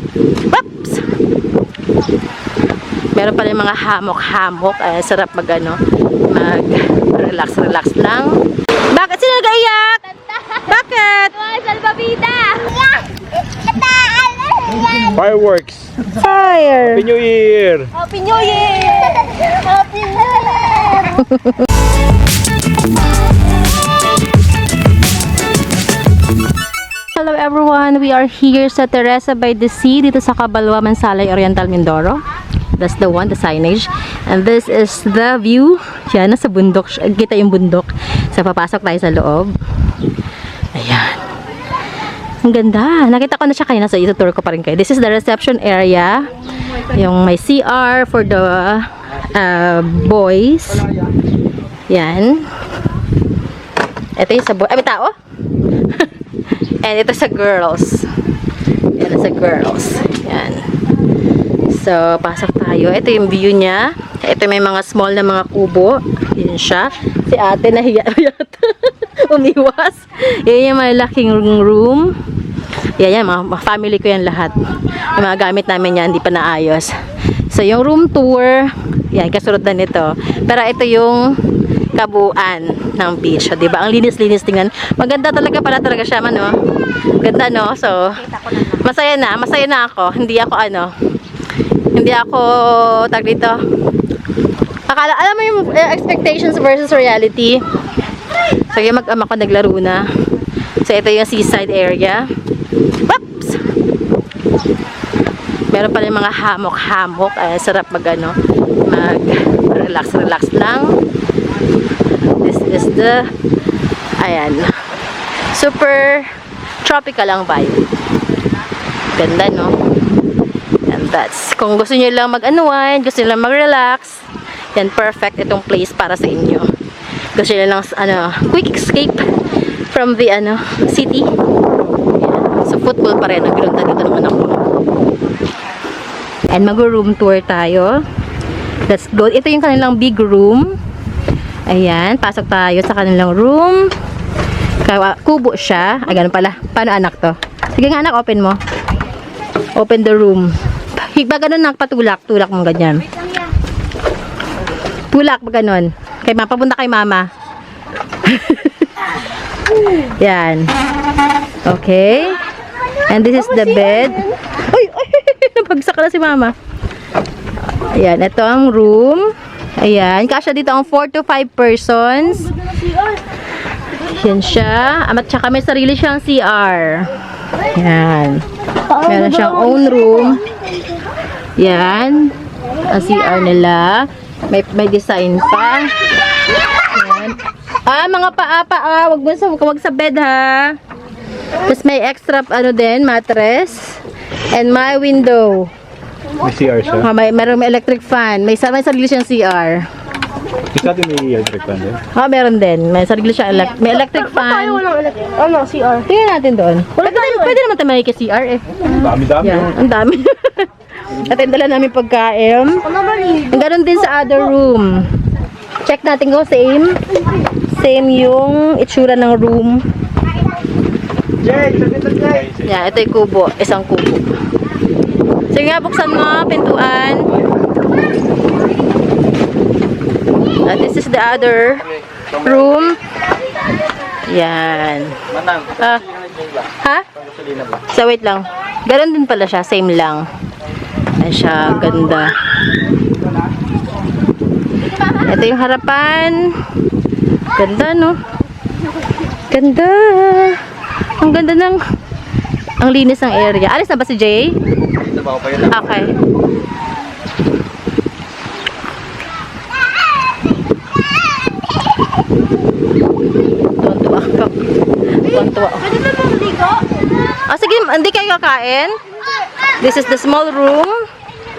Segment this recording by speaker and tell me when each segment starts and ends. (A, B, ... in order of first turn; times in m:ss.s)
0:00.4-0:01.1 A
0:03.1-0:12.6 A
0:12.6-0:13.0 B
0:13.7-0:15.0 B
0:15.0-0:16.0 C
0:16.1-0:17.0 A
0:16.8-0:17.9 C
0:18.0-0:21.2 B
0:21.2-0:21.5 A
0:27.1-0:32.2 A
0:32.8-0:39.5 A
0:40.7-0:41.2 A
0:42.4-0:50.9 A
0:51.9-0:52.5 A
0:54.2-0:55.1 A
0:55.9-0:58.1 A
0:58.9-1:00.6 A
1:01.6-1:12.1 A
1:13.0-1:17.0 A
1:17.5-1:21.4 A
1:21.9-1:26.6 A
1:27.2-1:30.9 A
1:31.9-1:33.6 A
1:34.9-1:37.6 A
1:38.7-1:40.0 A
1:40.8-1:42.3 A
1:42.9-1:43.6 A
1:45.7-1:51.0 A
1:52.3-1:53.3 A
1:54.2-1:54.8 A
1:55.5-1:56.3 A
1:56.8-1:57.9 A
1:59.1-1:59.8 A
2:00.9-2:06.7 A
2:07.3-2:09.2 A
2:09.9-2:11.3 A
2:12.1-2:14.6 A
2:16.5-2:18.0 A
2:18.9-2:20.7 A
2:21.7-2:23.9 A
2:24.8-2:28.6 A
2:29.7-2:33.0 A
2:35.1-2:37.3 A
2:38.2-2:39.1 A
2:39.8-2:40.7 A
2:41.6-2:42.4 A
2:43.0-2:46.5 A
2:47.8-2:52.6 A
2:54.0-2:57.1 A
2:57.6-3:00.4 A
3:01.6-3:06.0 A
3:06.8-3:10.8 A
3:11.6-3:15.7 A
3:16.4-3:17.1 C
3:17.0-3:19.9 A
3:20.7-3:22.0 C
3:22.1-3:24.8 A
3:24.4-3:26.0 B
3:26.0-3:32.9 A
3:27.1-3:27.5 B
3:28.9-3:29.7 C
3:32.9-3:33.5 B
3:33.5-3:35.1 A
3:35.8-3:37.0 A
3:37.7-3:39.8 A
3:42.5-3:44.3 A
3:45.5-3:47.3 A
3:50.6-3:53.0 A
3:54.2-3:56.1 A
3:56.7-3:57.0 A
3:57.8-4:00.3 A
4:01.2-4:02.4 A
4:04.9-4:06.6 A
4:07.5-4:08.2 A
4:09.5-4:11.8 A
4:12.8-4:14.6 A
4:15.4-4:16.2 A
4:23.6-4:26.0 A
4:25.9-4:26.8 B
4:27.4-4:29.0 A
4:29.8-4:31.0 A